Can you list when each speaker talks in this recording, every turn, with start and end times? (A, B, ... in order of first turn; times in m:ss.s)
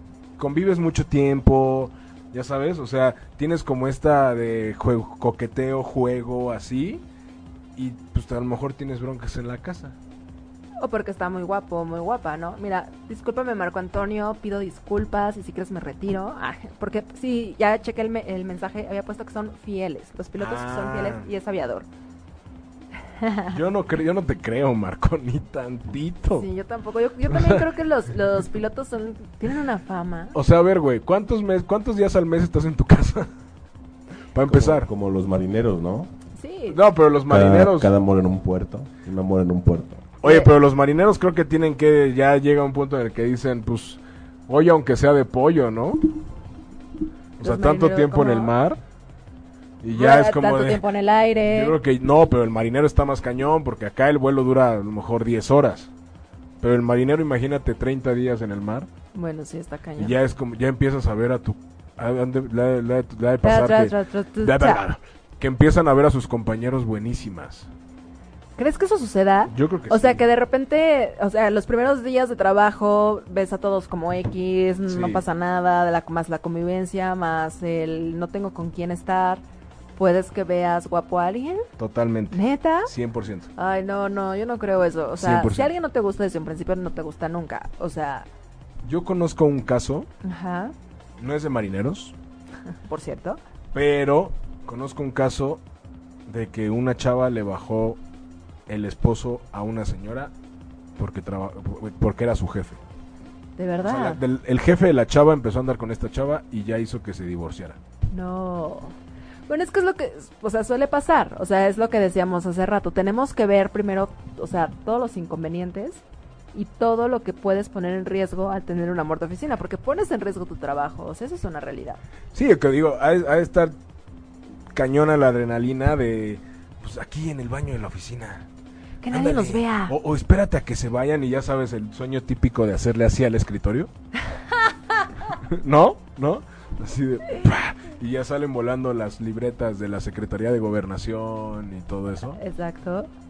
0:00.4-0:07.0 A
0:07.8-0:09.9 A
0:10.8-0:21.9 B
0:20.4-0:21.2 A
0:23.2-0:23.6 B
0:23.5-0:26.5 A
0:26.3-0:30.4 B
0:27.3-0:27.6 A
0:30.3-0:33.3 A
0:34.3-0:34.9 A
0:34.4-0:36.1 C
0:36.4-0:36.8 B
0:36.7-0:37.9 A
0:37.3-0:40.1 C
0:40.2-0:46.0 A
0:40.2-0:40.5 B
0:47.4-0:48.8 A
0:47.4-0:48.5 B
0:49.8-0:50.8 A
0:49.9-0:51.8 B
0:51.4-0:55.9 A
0:56.6-0:58.9 A
0:59.1-1:00.1 B
1:00.0-1:07.7 A
1:03.4-1:04.8 B
1:08.6-1:19.4 B
1:09.5-1:10.2 A
1:14.9-1:15.2 A
1:20.0-1:21.7 B
1:21.8-1:23.5 A
1:22.3-1:22.9 B
1:23.6-1:28.3 B
1:25.2-1:25.7 A
1:28.8-1:30.1 A
1:30.2-1:30.7 B
1:31.2-1:32.1 A
1:32.9-1:33.4 B
1:33.7-1:35.6 A
1:36.3-1:38.0 A
1:38.7-1:40.3 A
1:41.0-1:42.8 A
1:43.6-1:44.2 B
1:43.8-1:47.8 A
1:48.1-1:48.9 B
1:49.5-1:56.0 B
1:56.5-2:02.0 B
2:02.3-2:03.7 A
2:04.7-2:08.4 A
2:09.0-2:10.0 B
2:09.1-2:13.9 A
2:15.5-2:22.4 A
2:22.3-2:23.1 B